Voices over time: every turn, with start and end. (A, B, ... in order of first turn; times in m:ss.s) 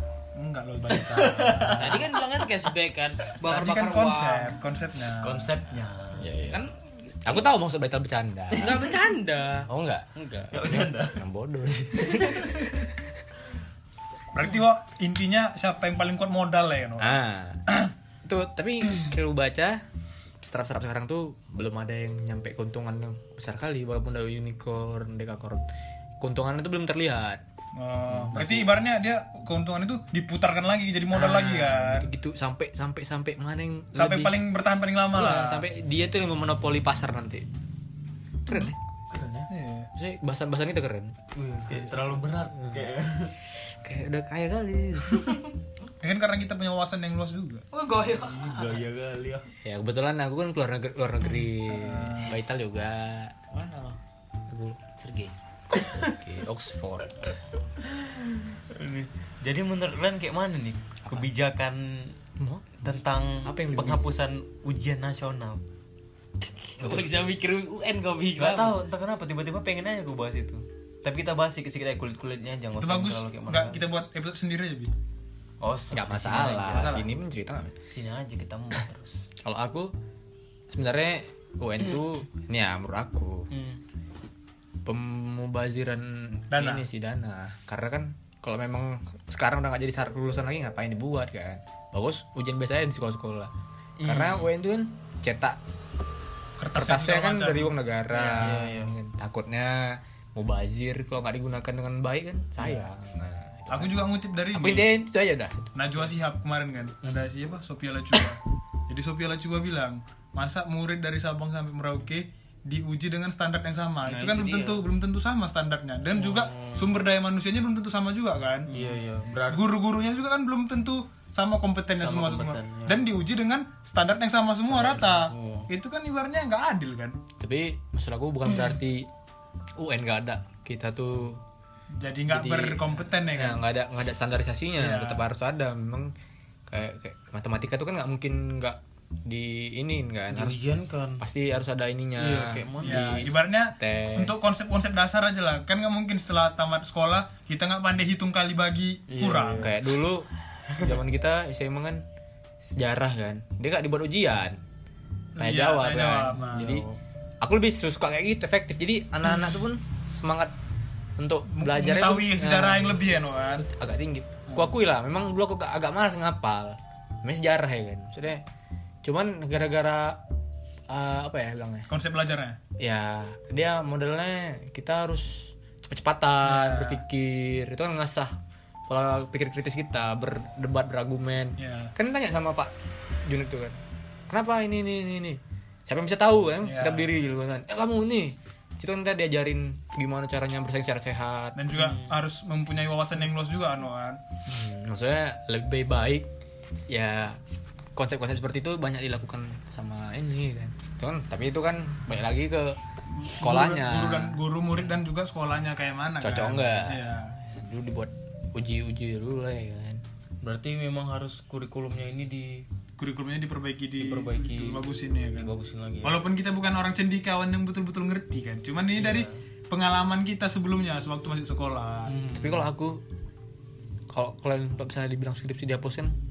0:00.4-0:02.1 A
0:00.9-0:02.2 B
0:01.8-0:04.6 C
0:03.4-0:05.6 A
0:05.2-0:06.3 B
0:06.2-0:06.7 D
0:06.5-0:07.5 C
0:07.2-0:08.9 D
0:08.5-0:10.6 C
0:09.7-0:10.1 D
0:10.5-0:11.2 B
0:10.6-0:12.9 D
0:12.0-0:12.9 B
0:14.3-0:17.1 A
0:17.0-0:17.6 D
0:18.2-0:19.8 D
0:20.4-0:25.6 D
0:26.2-0:27.4 D
0:27.8-0:32.1 A
0:28.1-0:28.8 D
0:31.1-0:34.4 D
0:34.0-0:35.7 A
0:35.1-0:37.5 D
0:38.5-0:38.8 D
0:38.6-0:39.5 B
0:39.5-0:39.9 A
0:39.9-0:41.2 D
0:41.3-0:43.4 B
0:41.7-0:42.9 D
0:43.6-0:45.4 D
0:46.0-0:47.6 A
0:47.7-0:48.8 C
0:48.3-0:49.5 B
0:49.6-0:53.4 D
0:51.7-0:52.4 A
0:53.5-0:54.0 C
0:54.5-0:54.8 D
0:55.0-0:55.4 C
0:55.8-0:56.1 B
0:56.0-0:57.4 D
0:58.7-1:02.2 B
1:02.4-1:04.1 D
1:02.8-1:05.6 B
1:06.4-1:08.8 C
1:06.8-1:07.1 D
1:08.4-1:13.9 B
1:12.8-1:14.9 A
1:15.6-1:17.0 B
1:15.9-1:17.7 D
1:16.4-1:17.1 A
1:17.9-1:19.3 B
1:19.4-1:19.9 D
1:20.7-1:23.5 D
1:23.5-1:23.8 B
1:24.8-1:33.5 D
1:26.5-1:26.8 A
1:34.0-1:34.5 B
1:34.0-1:35.6 D
1:36.6-1:38.5 A
1:36.7-1:45.7 D
1:38.4-1:38.9 B
1:43.7-1:44.9 A
1:45.8-1:58.7 A
1:54.0-1:54.8 C
1:56.1-1:56.9 B
1:58.7-1:59.8 B
1:59.5-2:07.2 A
2:02.0-2:03.1 B
2:04.7-2:05.7 B
2:07.4-2:09.1 D
2:09.8-2:11.4 D
2:12.0-2:13.6 A
2:12.3-2:16.1 D
2:14.8-2:15.2 A
2:16.7-2:20.6 D
2:20.3-2:21.2 B
2:21.2-2:24.4 D
2:22.2-2:23.3 B
2:22.8-2:29.7 A
2:29.1-2:29.8 B
2:29.6-2:32.0 D
2:32.6-2:34.6 D
2:35.4-2:36.7 A
2:35.4-2:36.9 D
2:36.3-2:37.0 B
2:37.4-2:40.5 D
2:41.2-2:43.0 D
2:41.5-2:43.7 A
2:43.7-2:48.4 D
2:49.0-2:50.2 D
2:50.9-2:51.9 D
2:51.9-2:52.6 A
2:52.8-3:02.7 D
2:56.4-2:57.0 A
3:01.6-3:01.9 A
3:03.3-3:03.8 D
3:04.3-3:11.6 D
3:06.6-3:07.1 A
3:11.6-3:14.2 A
3:11.7-3:12.2 B
3:14.5-3:16.3 D
3:16.9-3:17.4 D
3:18.0-3:22.8 D
3:23.2-3:27.4 A
3:23.3-3:24.4 D
3:26.2-3:30.0 D
3:30.4-3:32.7 B
3:33.0-3:35.5 A
3:34.0-3:34.8 B
3:35.4-3:36.3 B
3:36.0-3:42.1 A
3:39.0-3:39.4 B
3:42.1-3:42.7 B
3:42.3-3:43.0 D
3:44.1-3:46.2 D